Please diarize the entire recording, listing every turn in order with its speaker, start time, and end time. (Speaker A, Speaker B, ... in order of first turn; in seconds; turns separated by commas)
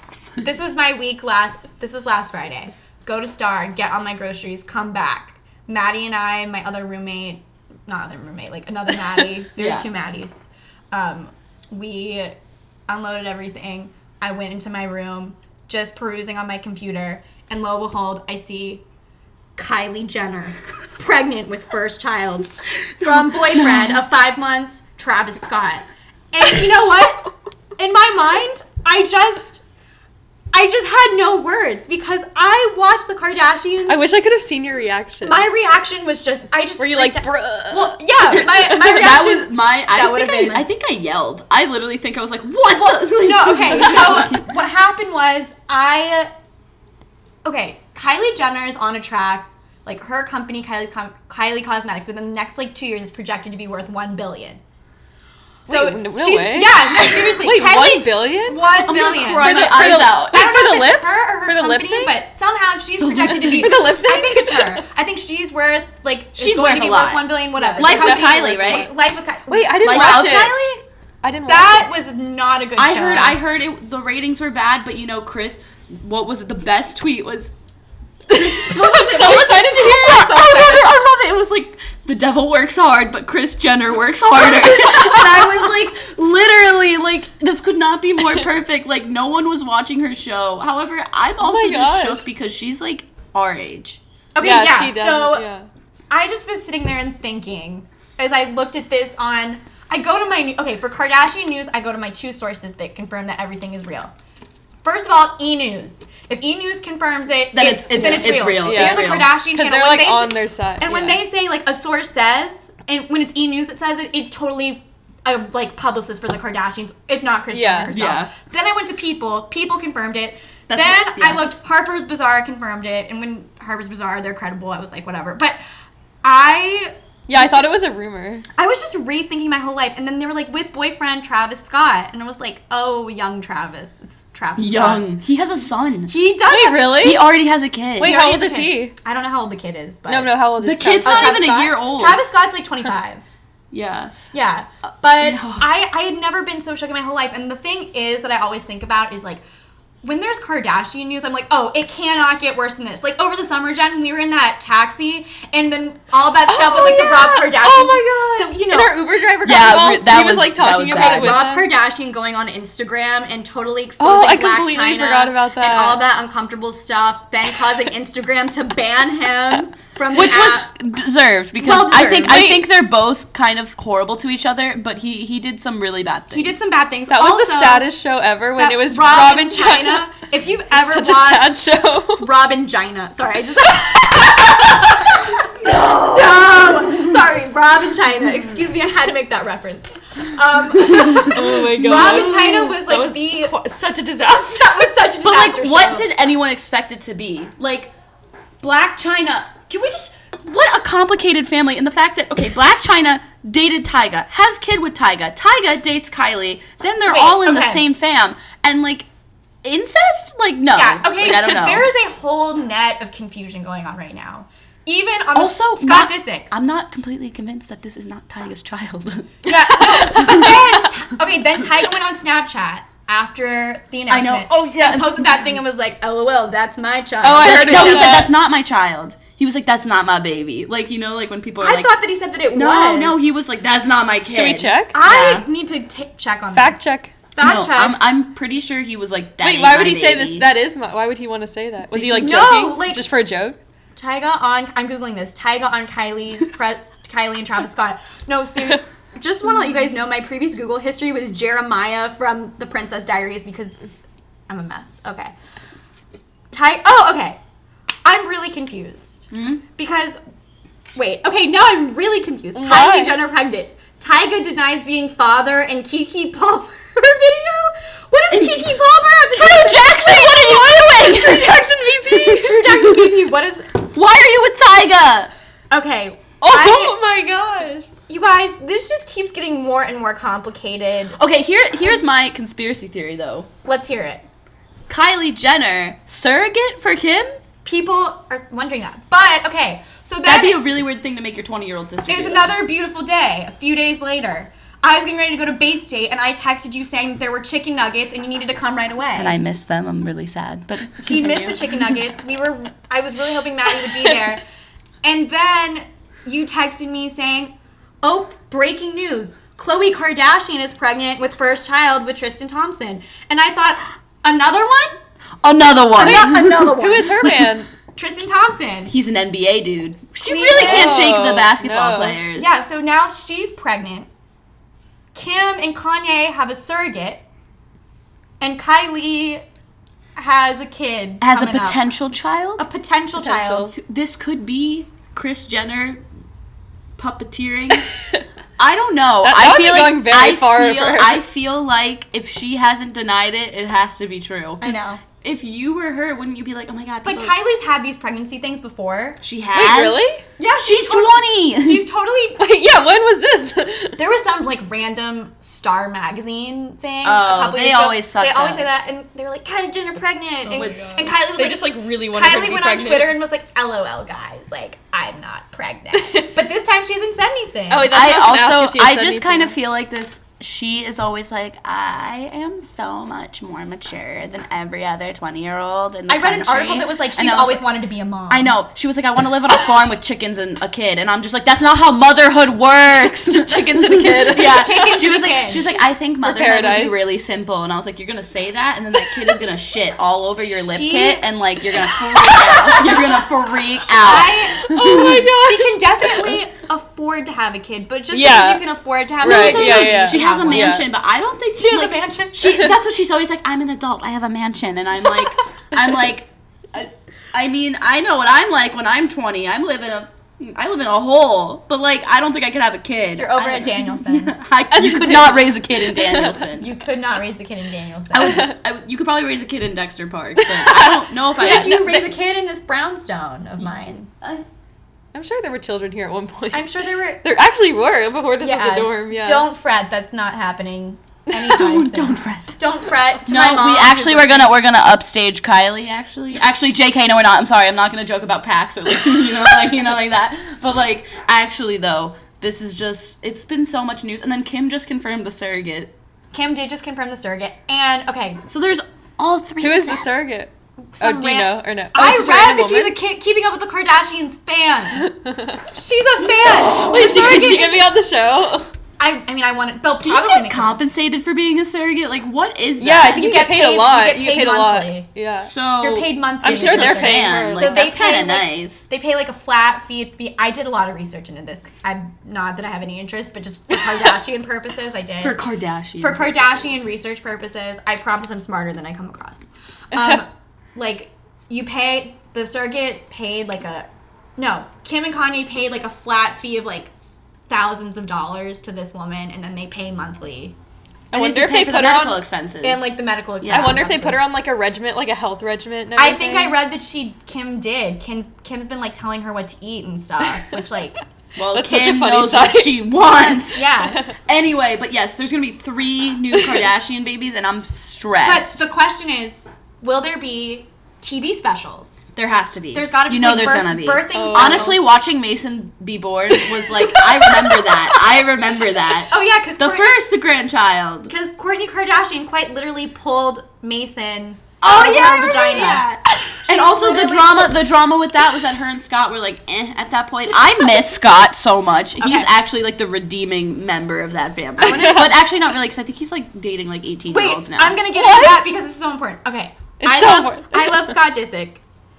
Speaker A: 0.4-12.4, Speaker B: 9.6-9.9, Speaker A: 12.9-18.8, Speaker A: 19.6-29.6, Speaker B: 23.0-24.0, Speaker A: 30.5-34.0, Speaker C: 33.9-35.5, Speaker A: 35.2-40.6, Speaker C: 36.8-38.0, Speaker B: 38.3-44.5, Speaker A: 42.8-46.3, Speaker A: 47.4-54.6, Speaker C: 55.7-58.6, Speaker A: 55.7-70.8, Speaker B: 58.8-60.4, Speaker C: 59.4-62.1, Speaker B: 63.0-63.8, Speaker C: 63.3-64.8, Speaker B: 66.4-68.9, Speaker C: 67.6-68.9, Speaker C: 69.5-70.6, Speaker B: 69.8-70.6, Speaker C: 71.2-71.9, Speaker A: 71.5-73.4, Speaker B: 72.8-77.5, Speaker C: 78.3-79.8, Speaker B: 78.3-94.0, Speaker A: 78.7-80.9, Speaker A: 84.5-85.2, Speaker C: 91.4-92.2, Speaker A: 94.3-95.5, Speaker C: 94.4-95.7, Speaker A: 96.1-104.1, Speaker A: 104.8-125.6, Speaker B: 107.5-109.3, Speaker C: 108.0-111.2, Speaker C: 117.5-117.9, Speaker B: 117.9-118.3, Speaker B: 120.7-121.5, Speaker A: 126.2-127.6, Speaker C: 127.3-128.5, Speaker A: 128.6-135.1, Speaker B: 134.6-136.1, Speaker A: 136.1-137.1, Speaker C: 136.5-137.2, Speaker B: 137.0-138.2, Speaker C: 138.0-138.9, Speaker A: 138.0-140.3, Speaker C: 140.1-141.4, Speaker B: 140.6-142.2, Speaker A: 141.0-143.2, Speaker B: 143.7-144.1, Speaker A: 144.3-149.4, Speaker B: 145.2-145.7, Speaker A: 150.0-159.0, Speaker C: 156.5-161.7, Speaker B: 159.4-161.4, Speaker A: 160.9-170.7, Speaker C: 164.0-166.0, Speaker B: 170.1-176.6, Speaker A: 171.6-172.6, Speaker C: 172.3-172.7, Speaker A: 176.3-177.9, Speaker C: 177.1-180.1, Speaker A: 178.6-181.6, Speaker C: 180.7-182.3, Speaker A: 182.2-185.5, Speaker B: 185.6-187.2, Speaker A: 186.1-193.6, Speaker B: 190.8-192.6, Speaker C: 191.1-194.9, Speaker A: 194.5-196.1, Speaker B: 195.2-197.9, Speaker B: 198.6-209.1, Speaker A: 207.1-207.8, Speaker B: 209.6-211.9, Speaker A: 210.7-216.6, Speaker B: 215.3-220.7, Speaker A: 219.4-228.3, Speaker C: 220.0-220.6, Speaker B: 224.1-225.4, Speaker C: 227.2-228.3, Speaker B: 227.4-231.9, Speaker A: 231.6-233.2, Speaker B: 232.5-235.5, Speaker C: 234.3-235.0, Speaker A: 234.9-238.0, Speaker C: 236.5-237.2, Speaker B: 237.4-240.5, Speaker C: 239.4-243.6, Speaker B: 241.9-242.6, Speaker A: 242.2-243.1, Speaker A: 244.0-253.9, Speaker A: 254.5-255.3, Speaker A: 256.5-257.4, Speaker A: 258.0-260.2, Speaker B: 259.3-259.6, Speaker A: 260.9-270.9, Speaker C: 262.6-263.2, Speaker B: 268.3-268.8, Speaker B: 269.3-273.1, Speaker C: 271.0-272.6, Speaker A: 272.4-273.7, Speaker B: 273.9-275.3, Speaker A: 275.7-277.0, Speaker C: 276.4-277.9, Speaker A: 278.1-281.2, Speaker B: 281.2-283.5, Speaker A: 283.6-284.2, Speaker B: 284.9-287.3, Speaker A: 287.6-290.6, Speaker B: 290.2-292.5, Speaker A: 292.1-299.4, Speaker B: 299.1-302.0, Speaker A: 301.0-304.4, Speaker A: 305.0-315.0, Speaker B: 315.4-317.5, Speaker A: 316.0-317.3, Speaker C: 316.0-317.7, Speaker A: 317.9-318.9, Speaker B: 318.9-322.6, Speaker A: 320.2-321.1, Speaker C: 320.5-322.2, Speaker A: 322.4-324.1, Speaker A: 325.1-327.2, Speaker A: 328.4-329.4, Speaker A: 330.2-331.9, Speaker B: 331.2-332.6, Speaker A: 332.6-333.7, Speaker C: 333.2-333.8, Speaker B: 333.8-336.0, Speaker B: 337.0-337.9, Speaker B: 338.6-347.4, Speaker C: 339.2-341.2, Speaker A: 344.6-345.0, Speaker A: 347.0-349.2, Speaker B: 349.2-351.9, Speaker C: 349.5-350.2, Speaker A: 350.4-352.4, Speaker C: 352.4-354.0, Speaker A: 354.0-367.9, Speaker B: 357.0-358.7, Speaker B: 360.5-361.1, Speaker C: 360.6-363.1, Speaker C: 367.7-369.6, Speaker B: 367.9-377.6, Speaker A: 376.1-378.5, Speaker B: 378.3-395.6, Speaker C: 383.1-384.6, Speaker A: 384.4-385.7, Speaker C: 386.2-387.0, Speaker A: 390.4-391.3, Speaker C: 392.3-393.0, Speaker A: 392.5-393.0, Speaker A: 394.0-400.9, Speaker C: 394.5-396.4, Speaker C: 398.1-398.6, Speaker C: 399.2-400.9, Speaker B: 399.2-416.7, Speaker A: 401.6-402.7, Speaker A: 413.2-414.4, Speaker C: 414.7-416.5, Speaker A: 416.6-418.5, Speaker B: 418.1-422.1, Speaker C: 418.1-418.6, Speaker C: 420.4-422.0, Speaker A: 421.4-424.1, Speaker C: 425.1-426.7, Speaker A: 426.5-427.2, Speaker C: 427.2-429.5, Speaker A: 428.4-434.6, Speaker B: 431.5-432.6, Speaker B: 433.3-445.9, Speaker A: 446.3-448.4, Speaker B: 448.5-450.1, Speaker C: 449.6-453.0, Speaker A: 450.9-455.1, Speaker C: 454.9-455.7, Speaker A: 455.7-457.8, Speaker B: 456.4-457.8, Speaker C: 456.4-458.7, Speaker A: 459.0-460.8, Speaker B: 460.0-463.3, Speaker C: 462.8-465.5, Speaker A: 463.0-465.1, Speaker B: 465.4-468.9, Speaker A: 465.8-475.4, Speaker C: 466.4-467.9, Speaker B: 475.2-476.9, Speaker A: 476.0-486.9, Speaker A: 487.5-490.6, Speaker C: 491.1-492.2, Speaker B: 491.1-492.9, Speaker A: 492.6-494.2, Speaker B: 493.4-493.9, Speaker C: 493.5-496.6, Speaker A: 496.0-501.0, Speaker B: 501.4-508.7, Speaker C: 501.4-502.8, Speaker A: 503.5-504.0, Speaker C: 503.7-504.1, Speaker C: 506.3-506.6, Speaker A: 508.2-512.1, Speaker B: 512.2-521.1, Speaker A: 512.7-514.8, Speaker C: 514.1-514.7, Speaker A: 516.8-517.9, Speaker A: 519.0-520.0, Speaker A: 521.1-525.9, Speaker B: 524.6-537.9, Speaker A: 526.4-527.6, Speaker A: 532.0-532.3, Speaker C: 534.6-535.1, Speaker A: 534.6-535.1, Speaker A: 537.1-541.6, Speaker C: 538.0-538.5, Speaker C: 539.8-541.0